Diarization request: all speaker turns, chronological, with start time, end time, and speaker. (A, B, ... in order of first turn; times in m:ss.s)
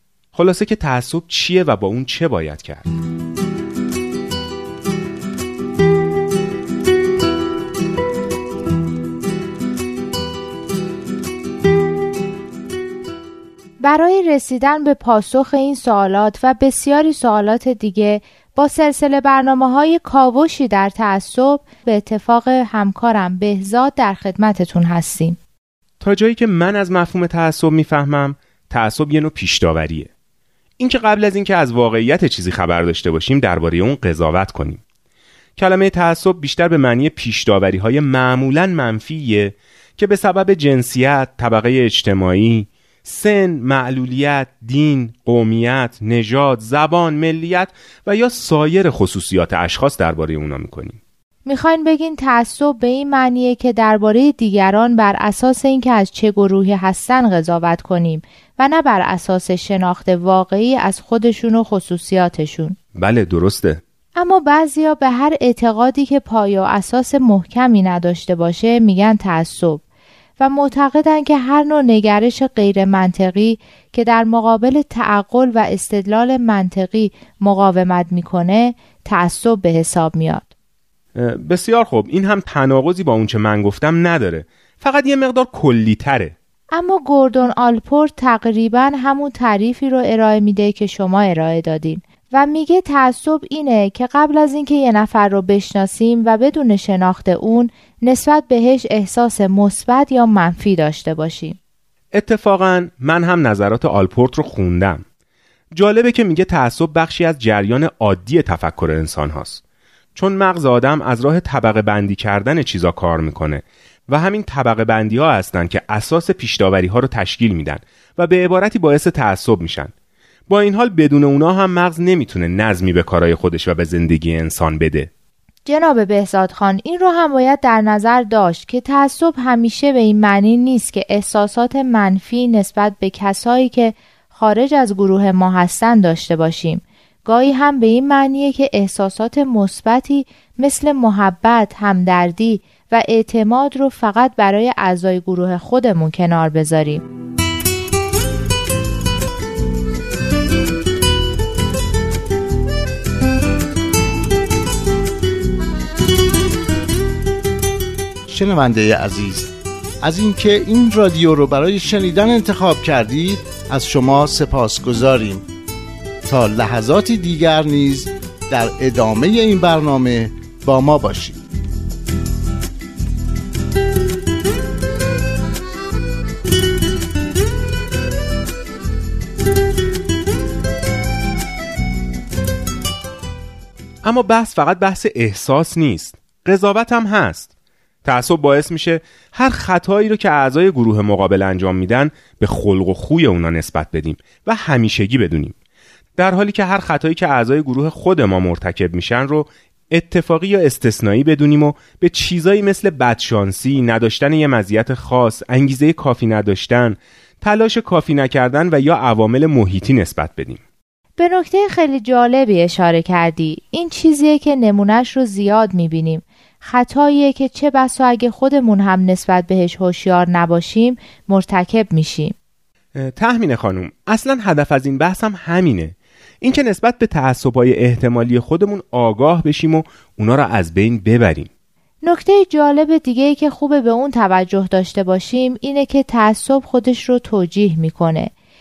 0:00.3-0:02.9 A
0:13.8-0:25.4 B
0:26.0-0:30.1 A
0:30.8-0:34.8 A
0:35.6-0:51.0 A
0:51.5-1:02.8 B
1:03.0-1:03.8 A
1:04.2-1:09.8 B
1:10.4-1:20.5 B
1:21.2-1:26.4 A
1:26.7-1:41.6 B
1:42.1-1:45.0 A
1:45.7-1:49.6 A
1:50.2-1:59.9 A
2:00.5-2:05.1 A
2:05.7-2:27.0 B
2:38.3-2:39.5 C
2:40.0-2:45.4 C
2:46.2-2:51.4 C
3:04.0-3:07.5 A
3:08.0-3:15.6 A
3:16.2-3:30.6 A
3:31.2-3:42.3 B
3:43.0-3:51.5 A
3:52.0-3:58.3 B